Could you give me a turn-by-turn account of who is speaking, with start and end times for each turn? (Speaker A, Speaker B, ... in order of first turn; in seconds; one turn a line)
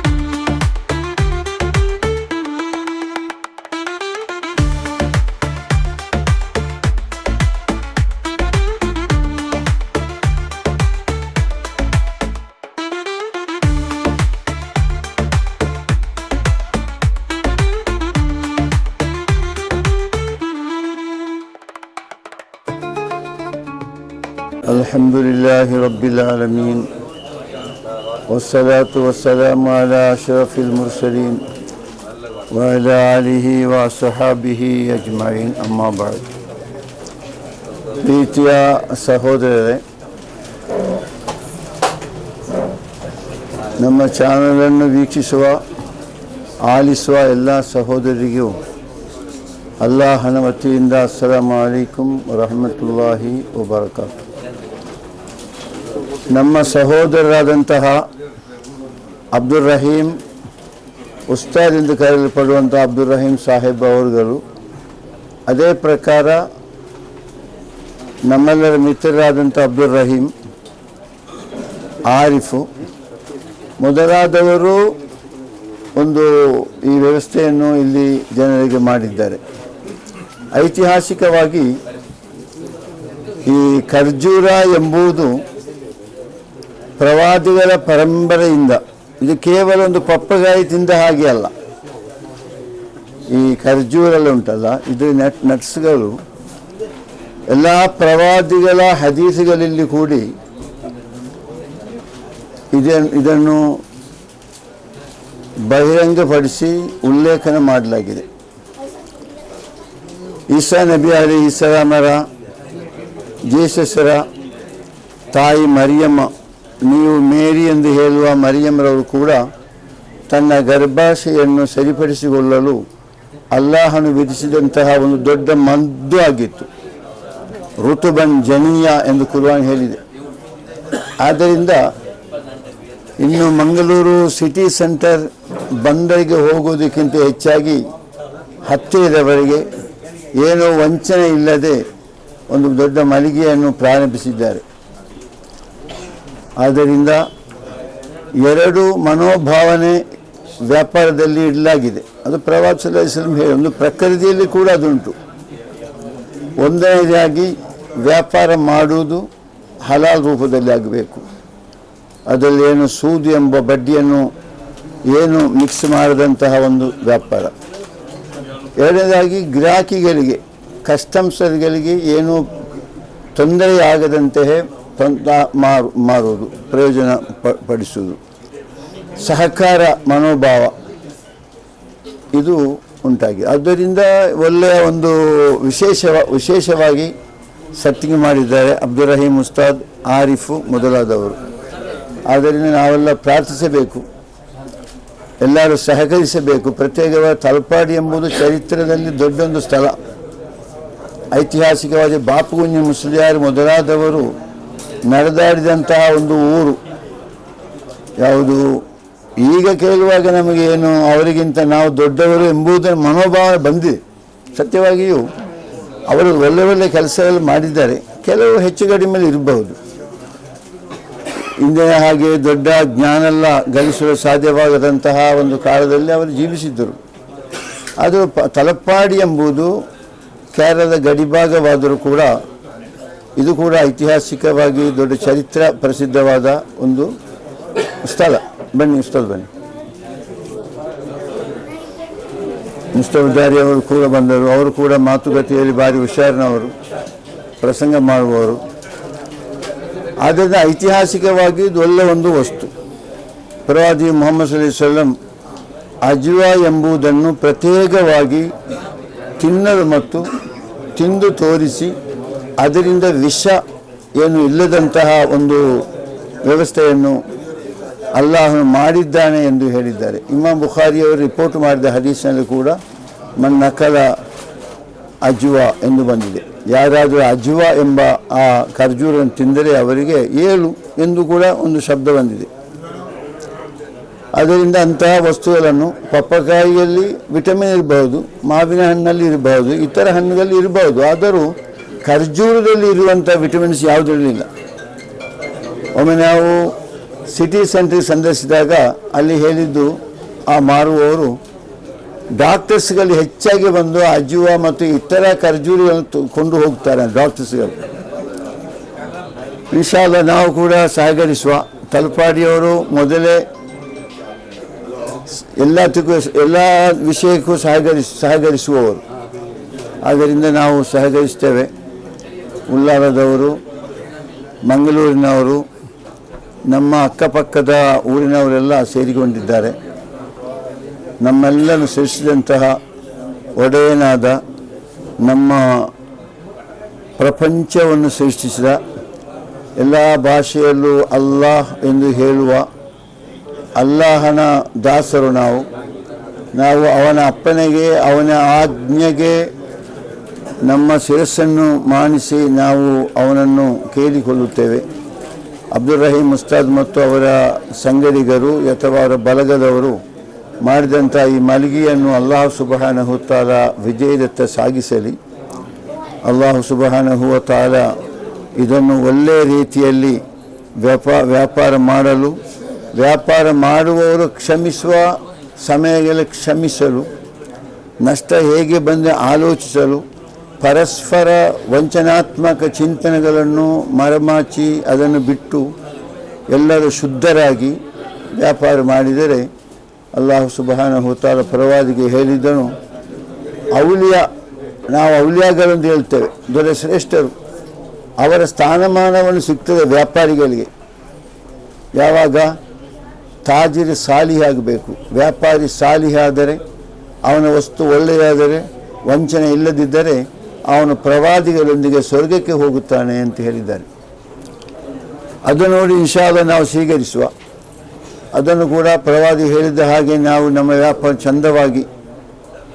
Speaker A: 24.7-26.9
Speaker A: 28.3-31.4
Speaker A: 32.5-36.3
Speaker A: 38.0-39.8
Speaker A: 43.8-45.6
Speaker A: 46.6-48.6
Speaker A: 49.8-54.1
Speaker A: 56.3-58.0
Speaker A: 59.4-60.2
Speaker A: 61.3-64.4
Speaker A: 65.5-66.5
Speaker A: 68.3-70.3
Speaker A: 72.1-72.7
Speaker A: 73.8-74.9
Speaker A: 76.0-79.4
Speaker A: 80.5-81.7
Speaker A: 83.5-85.3
Speaker A: 87.0-91.5
Speaker A: 93.3-96.2
Speaker A: 97.5-100.3
Speaker A: 102.7-103.8
Speaker A: 105.7-108.3
Speaker A: 110.5-112.3
Speaker A: 113.5-114.2
Speaker A: 115.3-116.3
Speaker A: 116.9-119.4
Speaker A: 120.3-122.8
Speaker A: 123.5-126.7
Speaker A: 127.8-130.0
Speaker A: 131.2-131.8
Speaker A: 133.2-135.3
Speaker A: 135.8-137.8
Speaker A: 138.7-139.7
Speaker A: 140.4-141.8
Speaker A: 142.5-144.6
Speaker A: 146.6-147.2
Speaker A: 148.4-150.0
Speaker A: 150.7-155.2
Speaker A: 156.6-159.3
Speaker A: 159.8-161.2
Speaker A: 162.3-164.3
Speaker A: 165.1-167.5
Speaker A: 168.8-172.4
Speaker A: 173.4-178.2
Speaker A: 179.2-180.8
Speaker A: 182.4-187.1
Speaker A: 187.8-191.4
Speaker A: 192.3-194.1
Speaker A: 195.4-200.0
Speaker A: 201.3-204.3
Speaker A: 205.1-206.8
Speaker A: 208.2-208.8
Speaker A: 209.4-214.0
Speaker A: 214.6-215.2
Speaker A: 216.1-219.8
Speaker A: 221.6-227.0
Speaker A: 228.0-229.8
Speaker A: 230.6-232.4
Speaker A: 233.4-237.2
Speaker A: 238.0-239.5
Speaker A: 242.9-246.7
Speaker A: 247.6-248.6
Speaker A: 250.2-252.7
Speaker A: 253.7-255.2
Speaker A: 256.1-258.5
Speaker A: 259.4-260.2
Speaker A: 261.0-261.9
Speaker A: 262.6-263.6
Speaker A: 264.2-265.9
Speaker A: 266.4-267.2
Speaker A: 268.2-272.8
Speaker A: 273.4-274.2
Speaker A: 275.2-282.5
Speaker A: 284.4-291.5
Speaker A: 292.1-294.5
Speaker A: 296.0-296.8
Speaker A: 297.3-301.4
Speaker A: 302.4-307.9
Speaker A: 309.7-313.4
Speaker A: 315.4-319.0
Speaker A: 320.1-321.7
Speaker A: 322.7-323.6
Speaker A: 324.7-325.6
Speaker A: 326.7-329.8
Speaker A: 331.2-332.8
Speaker A: 333.6-334.4
Speaker A: 335.2-335.9
Speaker A: 337.2-338.8
Speaker A: 339.8-342.7
Speaker A: 343.8-345.7
Speaker A: 346.6-349.4
Speaker A: 350.6-354.9
Speaker A: 355.7-360.0
Speaker A: 360.6-365.2
Speaker A: 366.3-367.9
Speaker A: 368.6-370.2
Speaker A: 370.8-372.4
Speaker A: 373.0-377.1
Speaker A: 378.0-380.1
Speaker A: 380.6-385.7
Speaker A: 386.5-387.8
Speaker A: 388.4-389.5
Speaker A: 390.2-392.8
Speaker A: 393.7-394.3
Speaker A: 394.9-397.3
Speaker A: 398.2-400.7
Speaker A: 401.9-402.6
Speaker A: 403.4-406.6
Speaker A: 407.3-413.9
Speaker A: 415.5-417.3
Speaker A: 418.4-421.9